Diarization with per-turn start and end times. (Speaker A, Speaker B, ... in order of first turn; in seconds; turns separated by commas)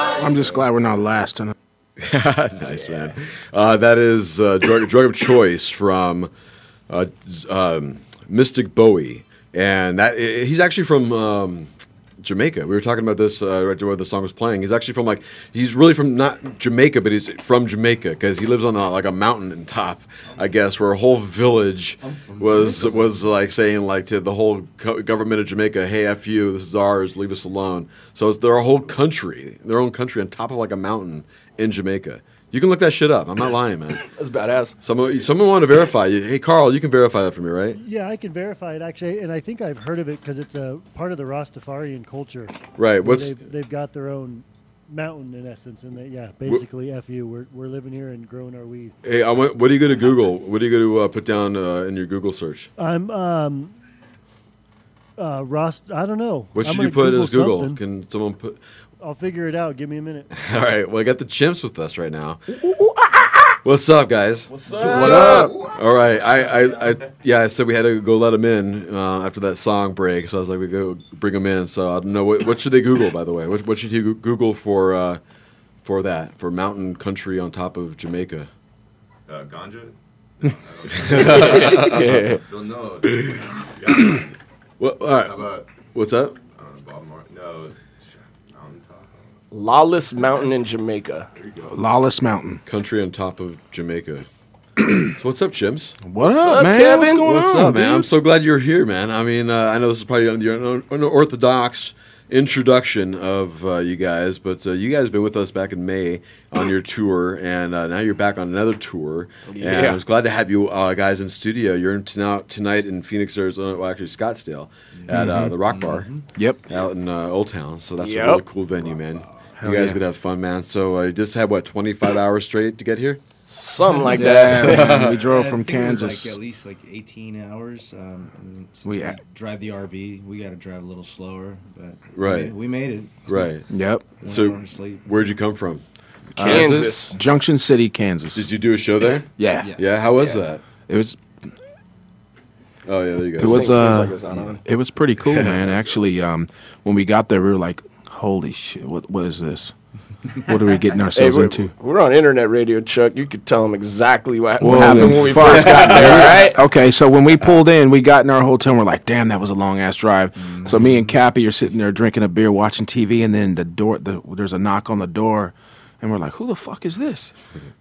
Speaker A: 0.1-1.5, Speaker B: 2.0-6.3, Speaker B: 6.9-11.7, Speaker B: 12.2-34.0, Speaker C: 22.3-23.1, Speaker D: 34.1-34.8, Speaker B: 34.8-37.8, Speaker E: 37.7-48.9, Speaker B: 42.8-43.4, Speaker B: 49.0-52.7, Speaker E: 52.8-53.7, Speaker E: 55.2-57.8, Speaker B: 56.5-58.6, Speaker E: 59.0-60.3, Speaker B: 60.3-62.7, Speaker B: 63.6-75.2, Speaker D: 64.5-65.5, Speaker B: 75.8-78.5, Speaker F: 79.3-84.2, Speaker B: 81.0-82.2, Speaker D: 81.4-82.4, Speaker B: 83.0-84.2, Speaker B: 84.8-86.4, Speaker F: 85.2-85.6, Speaker F: 86.5-89.1, Speaker D: 89.5-91.3, Speaker A: 91.6-92.6, Speaker B: 92.6-94.3, Speaker B: 94.8-96.0, Speaker A: 96.0-98.1, Speaker D: 96.2-97.3, Speaker B: 97.2-116.1, Speaker D: 109.5-110.0, Speaker C: 114.9-116.2, Speaker A: 115.1-115.5, Speaker A: 116.3-116.6, Speaker B: 116.7-123.2, Speaker D: 118.0-118.5, Speaker C: 118.8-119.5, Speaker A: 119.6-120.0, Speaker D: 123.5-124.8, Speaker C: 123.8-133.5, Speaker A: 124.1-126.4, Speaker B: 124.5-125.1, Speaker A: 128.8-129.2, Speaker B: 132.1-132.5, Speaker B: 133.3-133.7, Speaker A: 133.7-134.0, Speaker C: 134.2-135.1, Speaker B: 134.2-135.8, Speaker A: 136.3-138.5, Speaker B: 136.4-137.0, Speaker D: 136.4-137.2, Speaker B: 138.3-140.6, Speaker A: 139.4-139.7, Speaker C: 139.6-139.8, Speaker A: 140.9-141.2, Speaker B: 142.8-143.8, Speaker A: 143.4-149.7, Speaker D: 143.4-144.6, Speaker B: 145.3-145.7, Speaker A: 150.4-151.7, Speaker D: 151.1-156.6, Speaker A: 154.6-167.3, Speaker C: 160.4-161.2